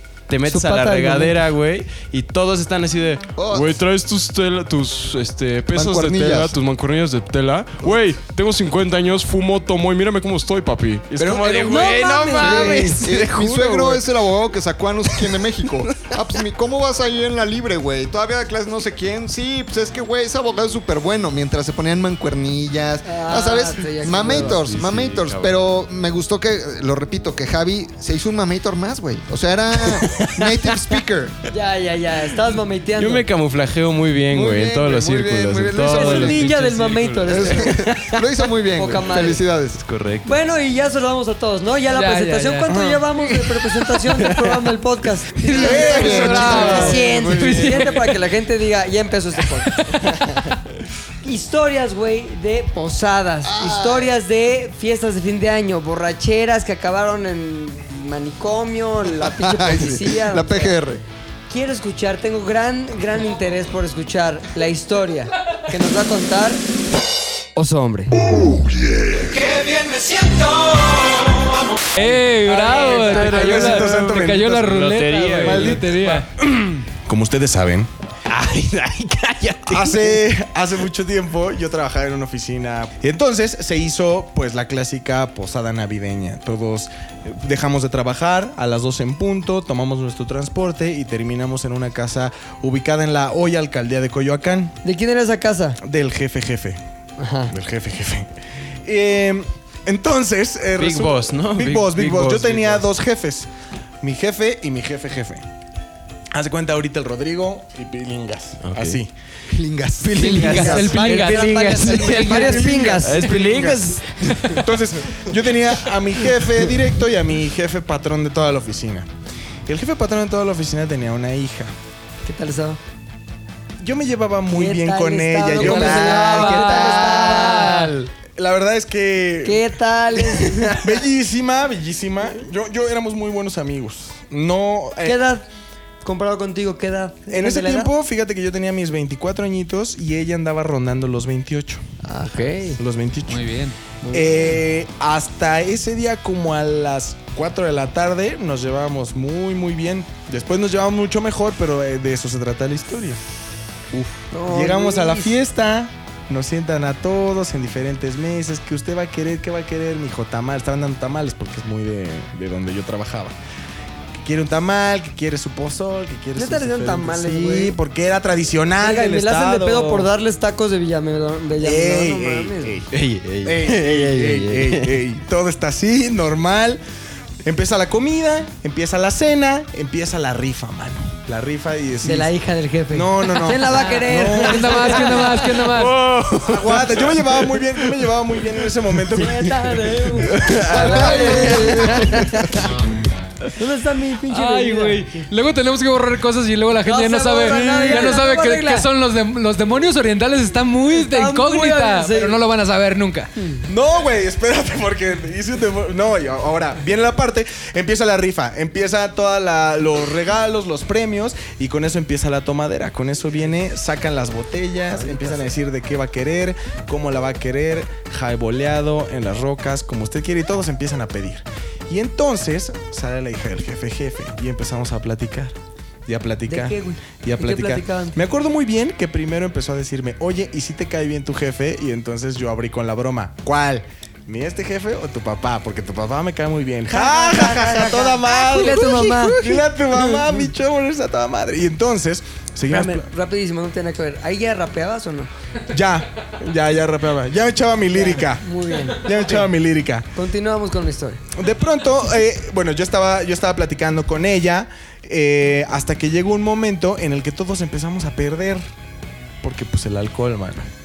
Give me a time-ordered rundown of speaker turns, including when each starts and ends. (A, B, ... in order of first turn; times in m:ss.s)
0:00.3-0:14.0 A
0:00.5-0:01.4 B
0:03.4-0:03.8 C
0:05.7-0:06.6 C
0:11.2-0:31.4 C
0:11.7-0:13.1 B
0:15.2-0:16.2 A
0:23.0-0:24.7 B
0:24.5-0:25.6 A
0:29.9-0:30.9 A
0:31.5-0:33.3 B
0:33.0-0:38.2 A
0:34.3-0:36.4 C
0:35.9-0:37.8 B
0:37.3-0:39.8 C
0:38.8-0:39.4 B
0:39.8-0:40.3 A
0:40.2-0:50.0 B
0:41.9-0:43.0 D
0:42.7-0:43.0 E
0:44.1-0:44.5 A
0:45.5-0:48.2 D
0:45.5-0:47.0 E
0:45.5-0:47.6 C
0:47.4-0:47.7 A
0:51.2-1:00.7 B
0:53.4-0:54.1 C
0:59.2-1:01.0 C
1:01.5-1:06.6 B
1:07.6-1:08.1 B
1:08.5-1:09.3 C
1:09.7-1:11.0 A
1:11.9-1:16.3 D
1:12.5-1:13.4 B
1:12.6-1:14.8 E
1:12.6-1:16.8 A
1:15.4-1:16.2 E
1:17.0-1:17.9 E
1:18.3-1:20.2 A
1:19.7-1:34.8 E
1:34.8-1:35.8 B
1:35.8-1:36.8 E
1:37.2-1:37.5 B
1:37.5-1:43.5 E
1:40.8-1:42.9 A
1:44.0-1:45.4 E
1:46.3-1:49.1 E
1:48.6-1:49.0 A
1:49.5-1:50.9 C
1:50.1-1:52.5 A
1:50.2-1:53.0 D
1:50.2-1:53.3 B
1:51.9-1:54.0 E
1:53.0-1:54.3 A
1:54.5-1:59.1 E
1:59.7-2:01.7 E
2:02.2-2:02.8 B
2:03.8-2:09.6 E
2:04.5-2:07.9 B
2:05.6-2:07.9 D
2:09.4-2:10.8 B
2:10.2-2:15.2 E
2:15.0-2:15.4 B
2:16.0-2:17.9 B
2:17.3-2:21.8 E
2:22.0-2:22.8 B
2:22.8-2:23.5 E
2:23.3-2:23.8 D
2:24.0-2:24.6 B
2:24.1-2:33.2 E
2:33.9-2:43.4 E
2:34.3-2:35.4 B
2:44.2-2:50.1 E
2:46.4-2:47.8 B
2:48.8-2:52.8 B
2:51.6-2:52.9 E
2:52.9-2:55.0 A
2:53.4-2:56.8 E
2:57.4-3:02.3 E
3:02.0-3:05.5 B
3:02.9-3:05.2 E
3:04.0-3:06.0 D
3:05.3-3:08.1 A
3:06.5-3:09.6 E
3:09.2-3:12.5 B
3:10.3-3:12.3 A
3:10.7-3:11.8 E
3:10.7-3:12.5 C
3:13.6-3:15.2 B
3:14.3-3:23.3 D
3:16.8-3:18.9 B
3:20.9-3:22.4 B
3:23.4-3:23.6 B
3:23.7-3:45.6 E
3:46.1-4:03.0 E
3:46.5-3:48.2 B
3:56.9-4:00.4 B
4:02.7-4:05.3 B
4:05.7-4:08.4 E
4:07.9-4:09.5 B
4:09.0-4:10.1 E
4:10.1-4:11.2 B
4:11.4-4:18.6 E
4:19.4-4:20.7 E